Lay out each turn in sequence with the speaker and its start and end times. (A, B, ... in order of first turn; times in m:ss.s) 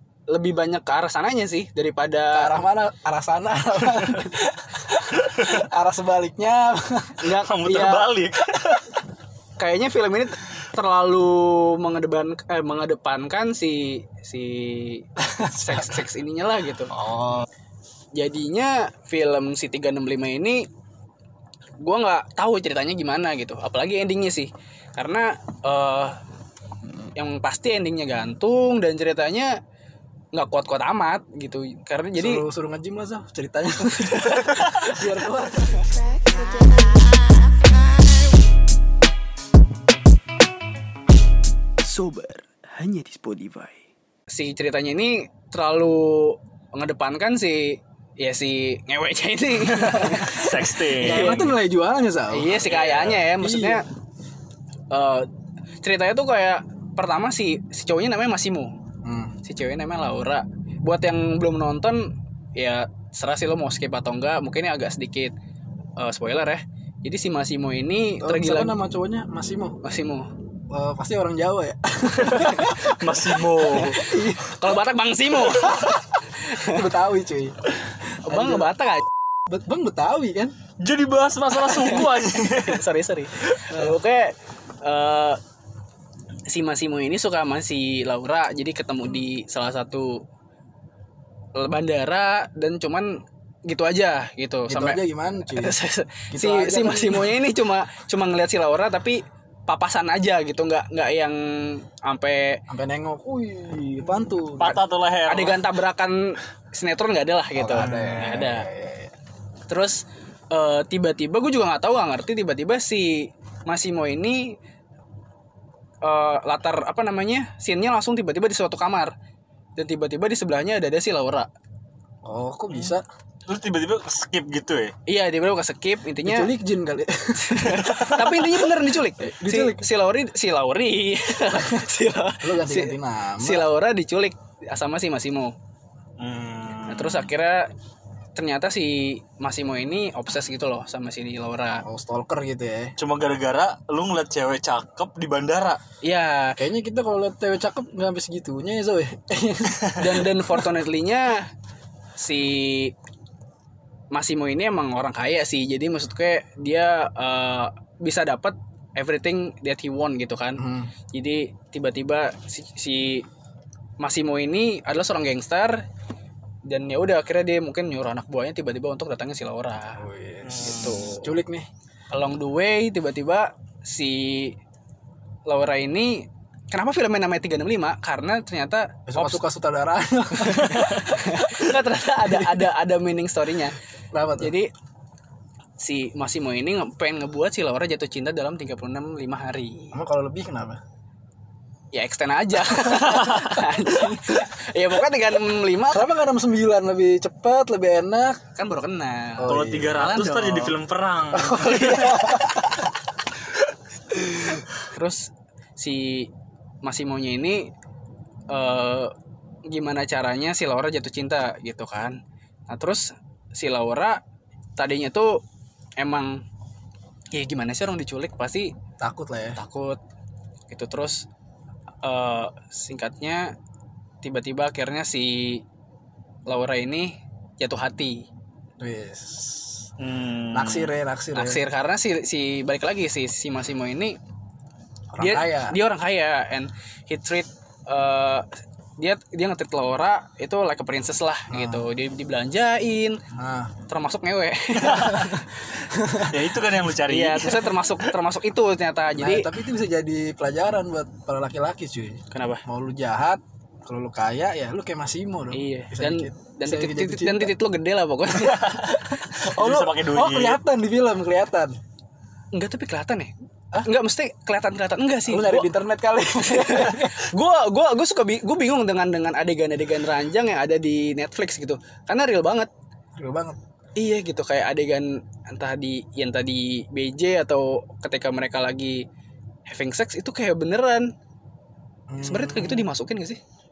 0:00.3-0:02.6 A
0:02.3-0:07.2 B
0:07.2-0:08.1 A
0:07.4-0:09.0 C
0:09.6-0:16.9 A
0:15.2-0:16.0 B
0:16.9-0:17.5 B
0:18.2-0:20.7 A
0:21.8-0:26.2 A
0:27.2-0:29.6 A
0:30.3-0:32.5 A
0:32.2-0:35.9 B
0:33.9-0:35.0 A
0:41.8-0:43.9 D
0:44.3-0:51.6 A
0:49.7-0:52.7 B
0:49.8-0:51.5 C
0:52.3-0:53.9 A
0:52.6-0:53.2 C
0:53.3-0:53.8 B
0:54.9-0:55.3 A
0:55.8-0:58.8 A
0:59.0-0:59.4 B
0:59.4-1:05.3 A
1:06.0-1:08.8 A
1:08.2-1:09.8 B
1:09.8-1:10.3 A
1:10.7-1:14.4 B
1:12.2-1:14.1 C
1:13.7-1:16.9 A
1:15.4-1:16.0 B
1:16.6-1:17.6 B
1:18.3-1:19.1 A
1:18.3-1:18.7 B
1:19.5-1:20.6 B
1:20.8-1:22.8 C
1:21.5-1:25.4 A
1:26.5-1:30.2 A
1:31.6-1:35.0 A
1:34.7-1:35.8 B
1:35.5-1:42.6 A
1:36.3-1:37.4 B
1:42.7-1:44.8 B
1:44.6-1:45.6 C
1:45.3-1:48.7 A
1:47.6-1:49.1 B
1:49.7-1:54.6 A
1:56.0-1:59.1 A
1:59.8-2:01.5 A
2:02.2-2:03.0 B
2:02.7-2:05.0 C
2:05.1-2:06.5 A
2:06.2-2:08.2 B
2:07.4-2:15.6 A
2:07.9-2:08.3 C
2:09.2-2:09.9 B
2:11.5-2:11.9 B
2:12.4-2:13.7 B
2:16.2-2:17.3 C
2:16.9-2:17.7 A
2:18.4-2:21.8 A
2:21.8-2:23.0 B
2:23.0-2:25.8 C
2:26.0-2:26.6 A
2:26.6-2:30.7 B
2:30.0-2:31.5 A
2:32.2-2:33.0 A
2:34.1-2:43.3 A
2:40.6-2:40.9 B
2:44.0-2:45.8 A
2:46.7-2:50.0 A
2:50.0-2:51.7 B
2:50.4-2:51.1 C
2:50.6-2:51.4 A
2:52.1-2:54.6 A
2:55.5-2:59.4 A
2:59.1-3:02.7 B
3:00.4-3:03.8 A
3:04.1-3:04.6 B
3:04.4-3:04.7 A
3:05.8-3:10.0 A
3:09.9-3:10.8 B
3:11.9-3:16.1 A
3:15.9-3:18.4 B
3:18.6-3:20.8 A
3:19.4-3:20.2 B
3:19.5-3:22.4 C
3:21.3-3:22.9 B
3:24.9-3:26.3 A
3:26.8-3:27.7 A
3:28.5-3:29.1 A
3:29.7-3:34.2 A
3:34.8-3:35.4 A
3:36.0-3:36.4 A
3:37.3-3:38.7 A
3:39.0-3:39.6 B
3:39.6-3:40.0 A
3:40.7-3:41.3 A
3:42.0-3:43.6 A
3:44.2-3:45.6 A
3:46.5-3:48.3 A
3:48.8-3:49.9 B
3:50.0-3:51.0 C
3:50.5-3:51.6 B
3:51.3-3:54.2 A
3:55.1-3:55.8 B
3:55.2-4:03.2 A
4:01.5-4:01.9 B
4:03.3-4:03.7 B
4:03.9-4:05.4 A
4:04.8-4:05.4 C
4:05.0-4:06.4 B
4:06.2-4:07.9 C
4:07.1-4:09.5 A
4:09.2-4:17.5 B
4:12.3-4:12.6 A
4:15.5-4:19.0 A
4:18.5-4:21.8 B
4:19.4-4:20.6 C
4:22.5-4:25.7 A
4:25.3-4:27.3 B
4:26.4-4:32.7 A
4:33.2-4:33.6 B
4:34.0-4:39.1 A
4:39.7-4:41.1 A
4:42.1-4:42.9 B
4:42.2-4:43.4 A